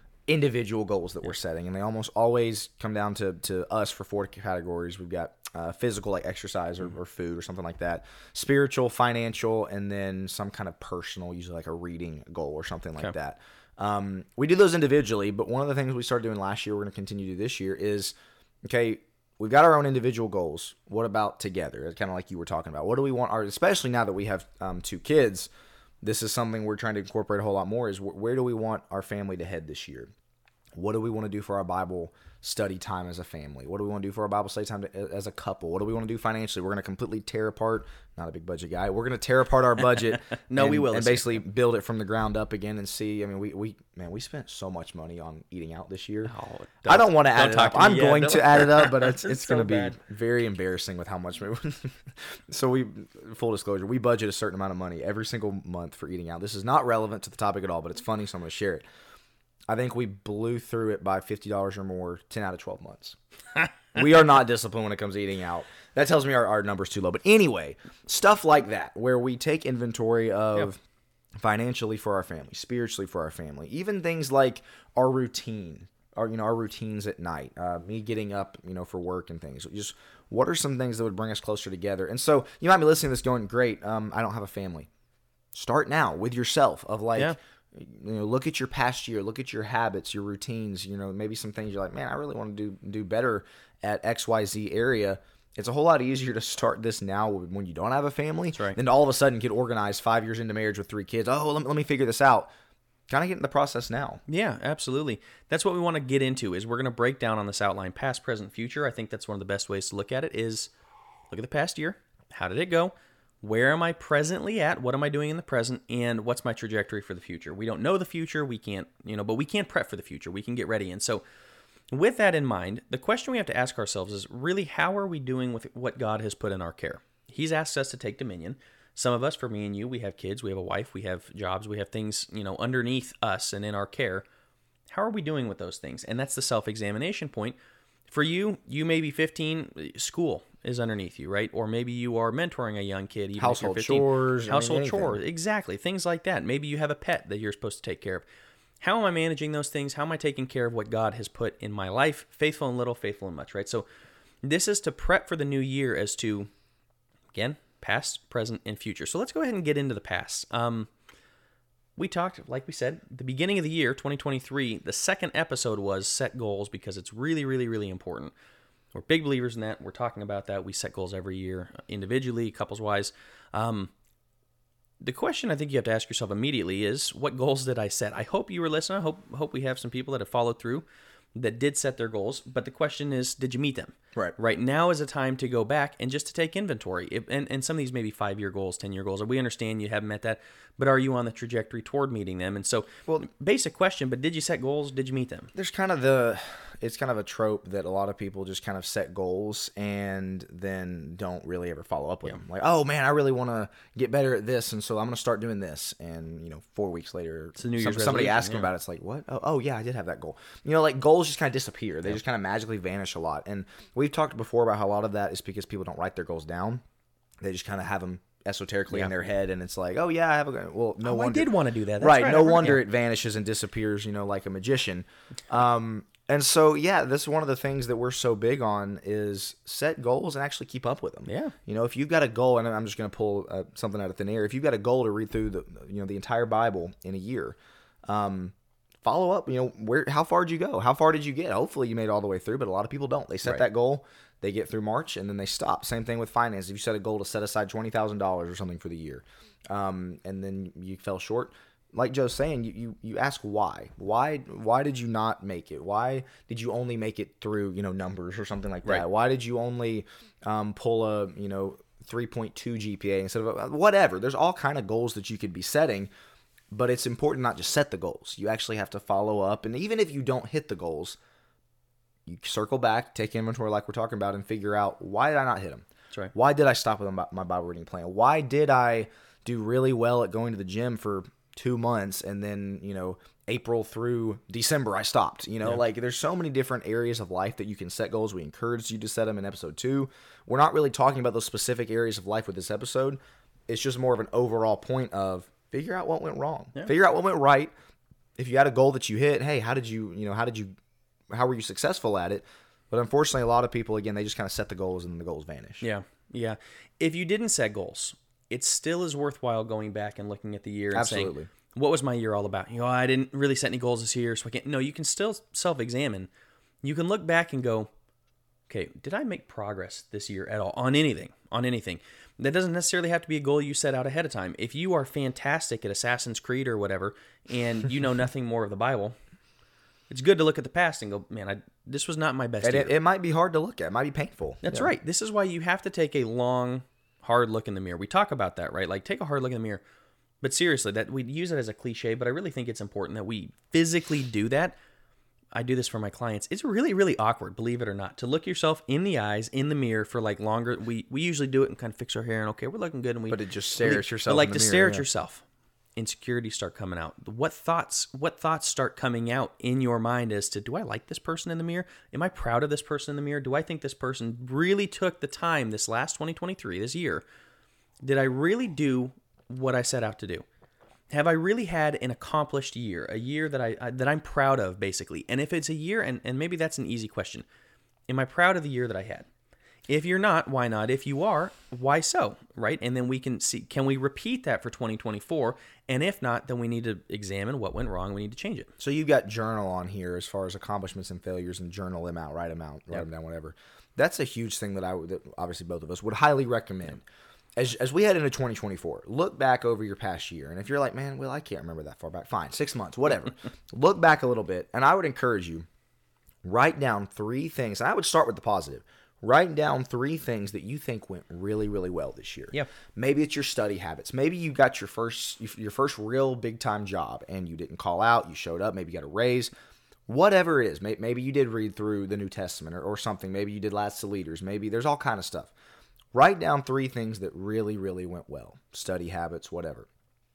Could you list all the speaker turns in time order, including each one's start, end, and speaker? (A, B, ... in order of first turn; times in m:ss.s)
0:00.3-0:25.5 A
0:26.0-0:30.1 A
0:30.8-0:46.3 A
0:40.4-0:41.4 B
0:46.3-0:50.0 B
0:46.9-0:58.8 A
0:59.7-1:03.2 A
1:03.9-1:10.8 A
1:11.4-1:24.9 A
1:25.5-1:42.5 A
1:43.1-1:44.2 A
1:44.3-1:50.7 B
1:51.3-2:01.2 B
2:01.9-2:14.2 B
2:14.9-2:17.6 B
2:18.1-2:28.3 B
2:23.4-2:25.2 A
2:28.8-2:33.8 B
2:34.4-2:36.5 B
2:37.3-2:40.9 B
2:42.0-2:48.3 B
2:48.9-2:53.9 B
2:55.0-3:15.5 B
3:15.5-3:36.8 A
3:27.6-3:28.7 B
3:37.4-3:57.6 A
3:41.0-3:42.8 B
3:51.3-3:51.6 B
3:58.1-4:26.1 A
4:26.7-4:31.2 A
4:32.3-4:57.7 A
4:58.4-5:00.7 A
5:01.3-5:05.8 A
5:05.8-5:16.3 B
5:10.9-5:11.5 A
5:16.8-5:17.9 B
5:18.7-5:29.2 B
5:30.1-5:33.0 B
5:32.6-5:34.9 A
5:34.6-5:39.8 B
5:40.4-5:44.8 B
5:45.6-5:55.4 B
5:53.3-5:55.0 A
5:56.0-6:07.2 B
6:08.0-6:10.4 B
6:11.1-6:17.4 B
6:18.1-6:19.3 B
6:19.9-6:28.7 B
6:28.8-6:37.0 A
6:37.6-6:45.7 A
6:46.4-6:59.5 A
7:00.1-7:05.5 A
7:06.1-7:09.9 A